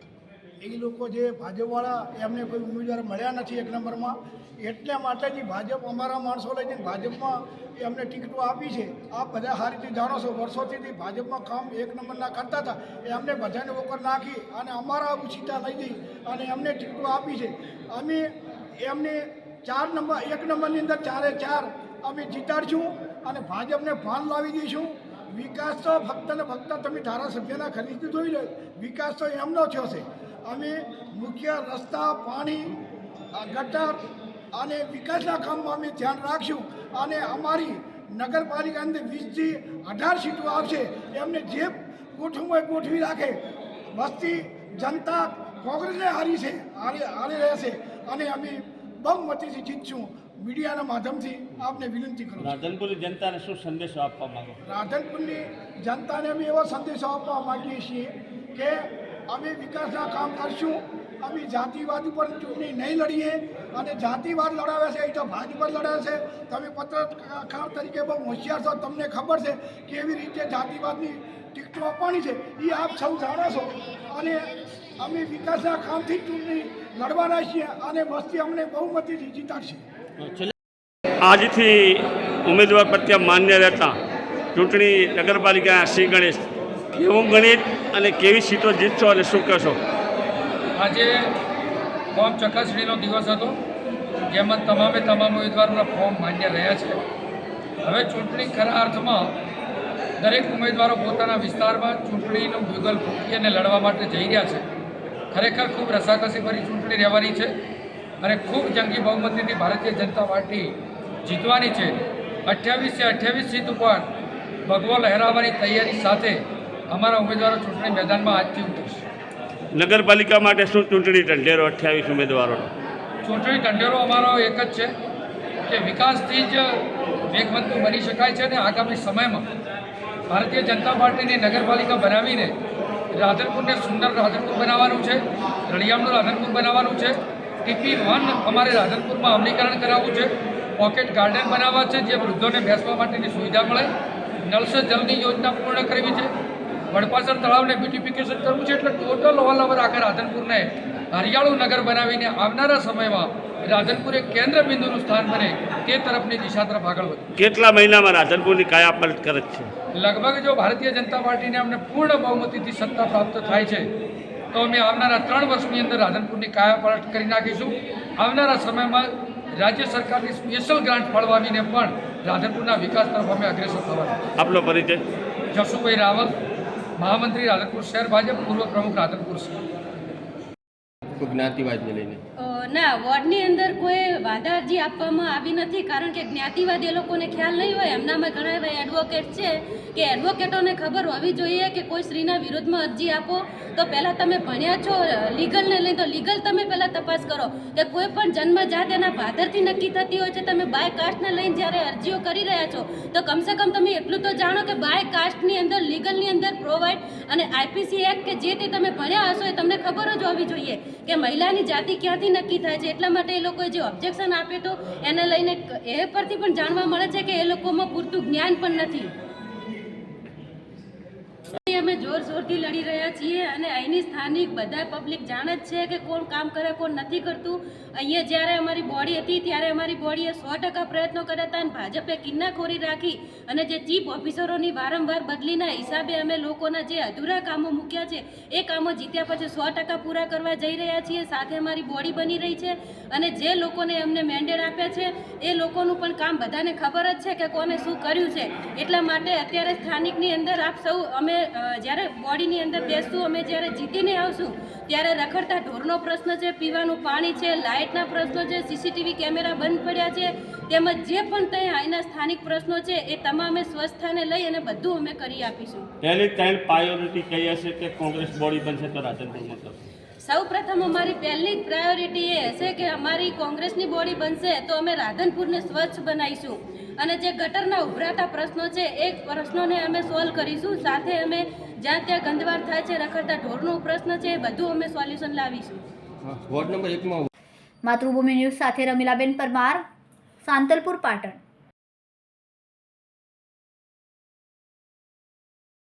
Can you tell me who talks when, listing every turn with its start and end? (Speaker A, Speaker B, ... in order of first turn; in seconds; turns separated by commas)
Speaker A: 0.6-18.3, Speaker A: 18.8-32.8, Speaker A: 33.4-43.4, Speaker A: 44.0-52.6, Speaker B: 52.4-54.6, Speaker A: 54.7-79.8, Speaker B: 81.2-84.0, Speaker B: 84.5-89.8, Speaker C: 90.8-91.3, Speaker C: 92.2-93.6, Speaker C: 94.3-97.0, Speaker C: 97.8-99.3, Speaker C: 100.2-104.7, Speaker C: 105.3-107.5, Speaker C: 108.2-110.7, Speaker C: 111.3-112.0, Speaker C: 112.5-114.1, Speaker C: 114.7-119.0, Speaker B: 119.7-122.7, Speaker C: 123.2-124.9, Speaker C: 125.7-129.4, Speaker C: 130.3-132.6, Speaker C: 133.1-143.9, Speaker C: 144.5-146.3, Speaker C: 146.9-157.3, Speaker B: 157.3-159.7, Speaker C: 159.9-163.9, Speaker C: 164.5-174.2, Speaker B: 174.4-175.1, Speaker C: 175.5-176.3, Speaker C: 177.0-179.5, Speaker D: 181.2-182.2, Speaker E: 182.4-219.1, Speaker E: 221.7-265.9, Speaker B: 266.0-269.8, Speaker E: 270.2-285.8, Speaker D: 286.2-287.3, Speaker F: 287.9-289.8, Speaker F: 290.4-291.4